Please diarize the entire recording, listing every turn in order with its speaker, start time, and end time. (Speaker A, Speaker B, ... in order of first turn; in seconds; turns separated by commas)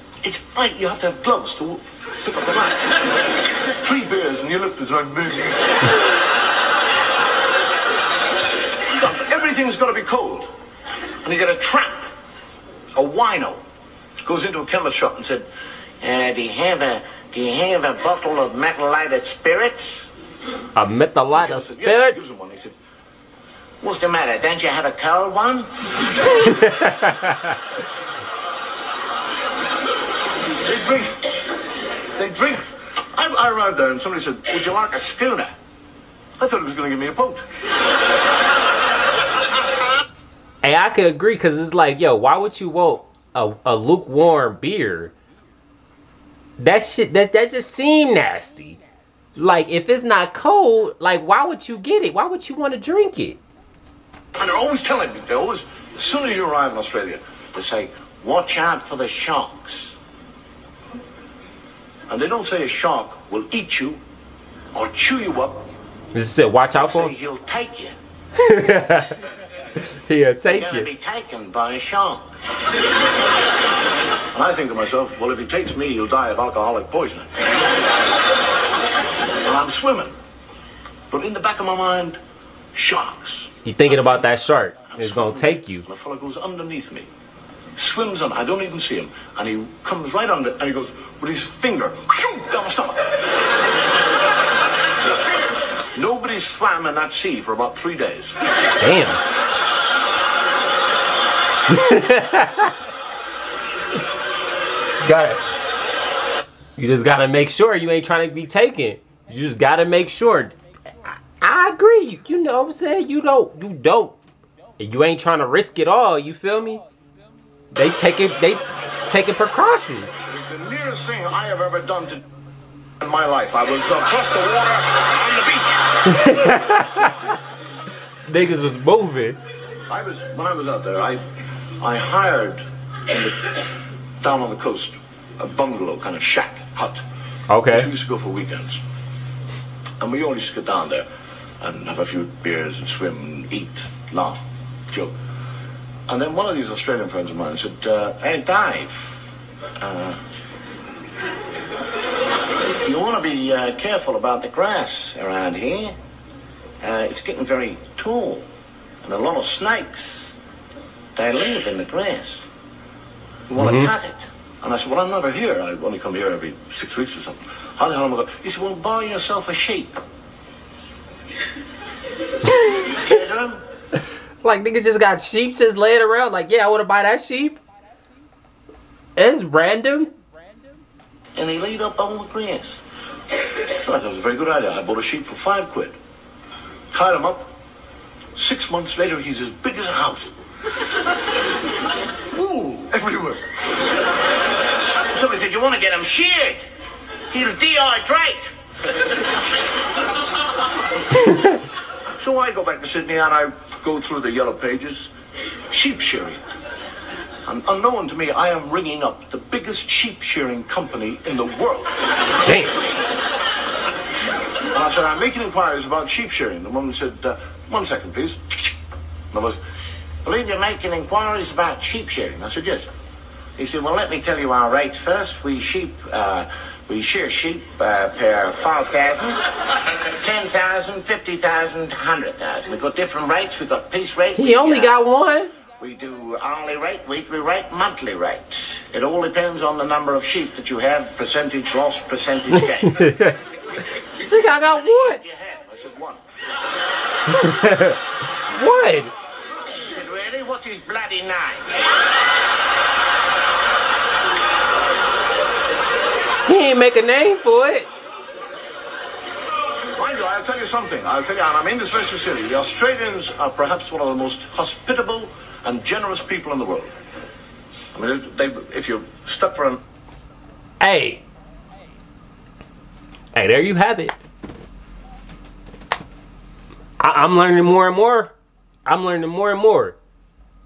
Speaker A: 0.2-2.8, Speaker A: 3.8-5.6, Speaker A: 8.9-10.5, Speaker A: 11.2-12.0, Speaker A: 12.9-13.6, Speaker A: 14.2-15.4, Speaker A: 16.0-20.1, Speaker B: 20.8-22.4, Speaker A: 21.3-22.7, Speaker A: 23.8-25.7, Speaker B: 26.4-27.2, Speaker A: 30.6-31.1, Speaker A: 32.1-32.6, Speaker A: 33.1-35.5, Speaker A: 36.4-37.4, Speaker B: 40.6-45.1, Speaker B: 46.6-48.8, Speaker B: 49.4-53.4, Speaker A: 54.4-59.9, Speaker A: 62.1-64.0, Speaker A: 64.7-65.6, Speaker B: 66.1-67.1, Speaker A: 66.7-67.9, Speaker B: 68.5-69.1, Speaker B: 70.1-70.8, Speaker A: 70.5-72.2, Speaker A: 74.3-77.3, Speaker A: 79.4-80.1, Speaker A: 81.1-82.2, Speaker A: 82.7-84.2, Speaker B: 83.6-85.8, Speaker A: 84.9-87.1, Speaker A: 87.8-93.1, Speaker A: 95.9-98.3, Speaker B: 98.8-99.2, Speaker B: 101.7-102.7, Speaker B: 105.0-105.4, Speaker B: 106.8-110.5, Speaker B: 111.4-114.2, Speaker B: 114.8-116.8, Speaker B: 117.7-120.2, Speaker A: 120.2-122.2, Speaker A: 123.0-125.9, Speaker B: 126.1-127.1, Speaker B: 128.3-129.4, Speaker A: 129.9-131.2, Speaker A: 131.8-133.6, Speaker A: 134.2-137.0, Speaker B: 137.5-137.9, Speaker A: 137.7-138.8, Speaker A: 140.0-141.0, Speaker A: 141.6-145.1, Speaker A: 146.1-149.1, Speaker A: 149.8-150.2, Speaker A: 152.7-155.9, Speaker A: 156.8-158.4, Speaker A: 159.0-160.3, Speaker A: 161.2-162.4, Speaker A: 163.5-170.0, Speaker B: 163.6-163.9, Speaker A: 172.8-173.6, Speaker B: 174.4-177.6, Speaker B: 179.2-180.1, Speaker A: 181.3-182.8, Speaker A: 183.8-185.9, Speaker A: 186.9-187.5, Speaker A: 188.3-190.3, Speaker A: 192.3-193.4, Speaker A: 195.1-196.7, Speaker A: 197.3-198.5, Speaker A: 202.2-205.1, Speaker A: 205.7-206.4, Speaker A: 207.4-211.9, Speaker B: 212.4-212.8, Speaker A: 214.7-218.7, Speaker A: 219.3-219.6, Speaker A: 220.2-222.9, Speaker A: 223.6-229.4, Speaker A: 230.2-235.0, Speaker B: 234.3-235.5, Speaker A: 235.8-243.0, Speaker B: 242.9-243.3, Speaker B: 244.2-245.2, Speaker A: 244.4-246.2, Speaker B: 247.3-248.0, Speaker B: 248.5-249.1, Speaker A: 249.8-251.7, Speaker B: 256.4-257.9, Speaker A: 260.0-266.9, Speaker A: 267.9-269.8, Speaker B: 270.8-271.2, Speaker B: 273.3-274.2, Speaker B: 277.0-278.3, Speaker B: 278.9-279.9